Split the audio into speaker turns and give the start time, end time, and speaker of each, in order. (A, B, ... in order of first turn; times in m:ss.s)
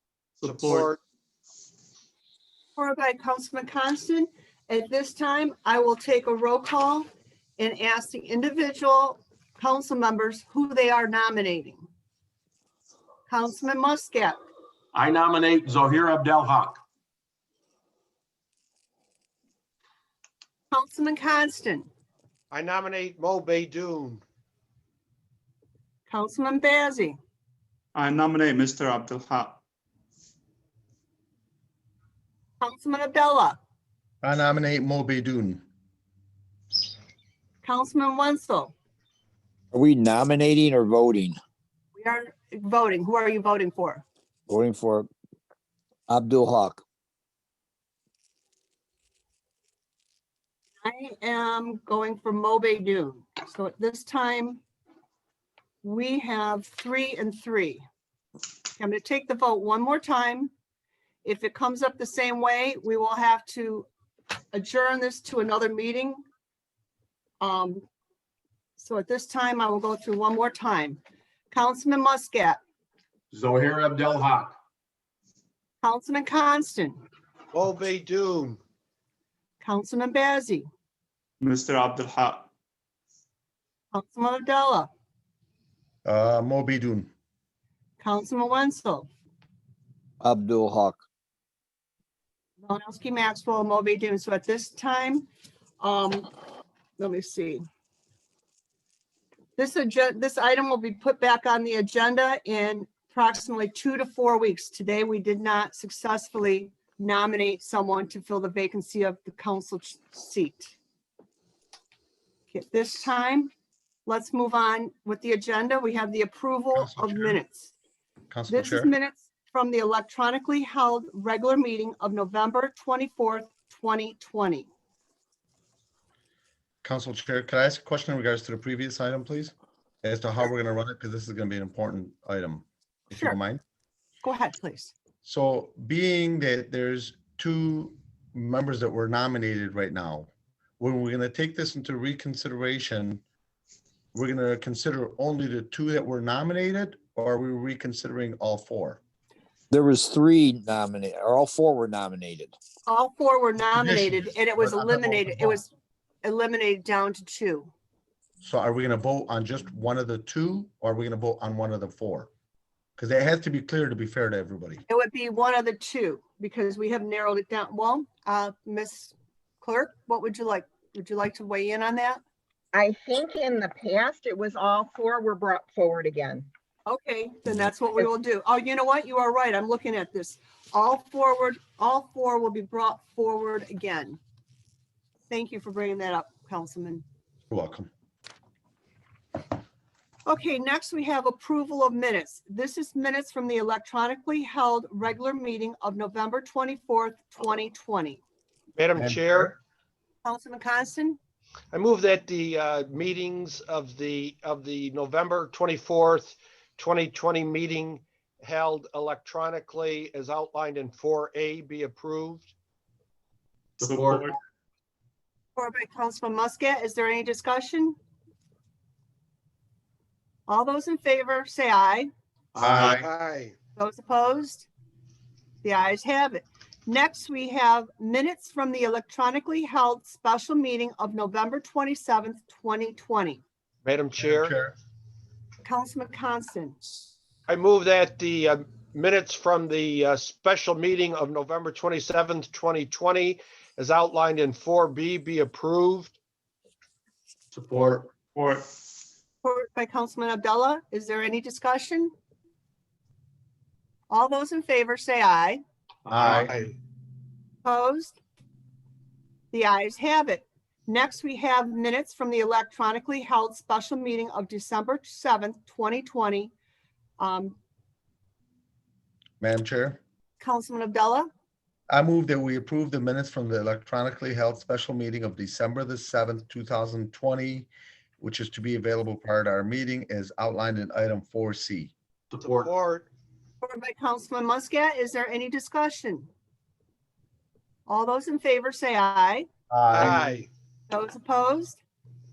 0:00.4-0:00.9 A
0:00.4-0:00.9 B
0:02.8-0:11.9 C
0:13.3-0:14.4 C
0:14.9-0:16.8 D
0:20.7-0:21.9 C
0:22.5-0:24.2 B
0:26.1-0:27.2 C
0:28.0-0:29.6 A
0:32.6-0:33.6 C
0:34.2-0:35.6 E
0:37.6-0:38.7 C
0:39.7-0:41.4 F
0:42.0-0:44.0 C
0:44.5-0:45.1 F
0:46.1-0:46.8 F
0:50.8-0:54.6 C
0:55.8-0:57.8 C
0:58.8-1:00.5 C
1:01.2-1:03.9 C
1:04.5-1:06.2 C
1:07.4-1:07.8 C
1:08.8-1:12.6 C
1:13.3-1:14.5 D
1:15.8-1:17.0 C
1:17.5-1:18.6 B
1:19.6-1:20.7 C
1:21.4-1:22.5 A
1:23.9-1:24.9 C
1:26.0-1:27.1 E
1:28.0-1:29.1 C
1:30.2-1:31.0 F
1:32.6-1:35.3 C
1:35.8-1:36.3 C
1:37.0-1:37.6 C
1:39.6-1:50.7 C
1:52.5-1:53.5 C
1:54.1-1:57.7 C
1:56.7-1:57.4 E
1:58.3-1:58.9 E
1:58.5-2:04.7 C
2:06.8-2:13.6 E
2:14.2-2:14.9 C
2:15.2-2:23.2 E
2:24.1-2:29.0 E
2:29.7-2:32.5 F
2:32.9-2:35.7 C
2:33.8-2:35.6 E
2:36.2-2:37.7 C
2:38.4-2:42.3 E
2:43.0-2:44.8 E
2:44.9-2:52.2 C
2:52.7-2:56.5 G
2:56.9-3:04.2 C
3:05.3-3:07.0 C
3:07.5-3:07.9 E
3:10.3-3:18.2 C
3:18.8-3:19.6 B
3:19.0-3:19.6 E
3:20.2-3:21.2 C
3:21.7-3:32.5 B
3:33.8-3:34.3 D
3:33.8-3:34.3 A
3:35.6-3:38.0 C
3:40.5-3:42.1 C
3:42.6-3:42.9 D
3:42.6-3:43.0 E
3:42.9-3:43.6 B
3:43.8-3:44.7 C
3:45.6-3:53.4 C
3:53.8-3:54.6 B
3:54.2-3:54.8 E
3:55.6-3:57.1 C
3:57.5-4:06.2 B
4:07.5-4:08.1 D
4:08.3-4:08.6 A
4:09.4-4:12.1 C
4:14.1-4:15.6 C
4:16.1-4:16.5 E
4:16.4-4:16.7 B
4:17.6-4:18.2 C
4:19.5-4:26.5 C
4:27.2-4:27.6 C
4:29.4-4:30.0 E
4:30.4-4:31.3 C
4:31.9-4:37.7 E
4:38.2-4:41.9 E
4:42.3-4:42.7 D
4:42.6-4:43.1 B
4:43.6-4:46.3 C
4:47.9-4:49.5 C
4:49.7-4:50.4 E
4:49.9-4:50.5 B
4:50.9-4:51.8 C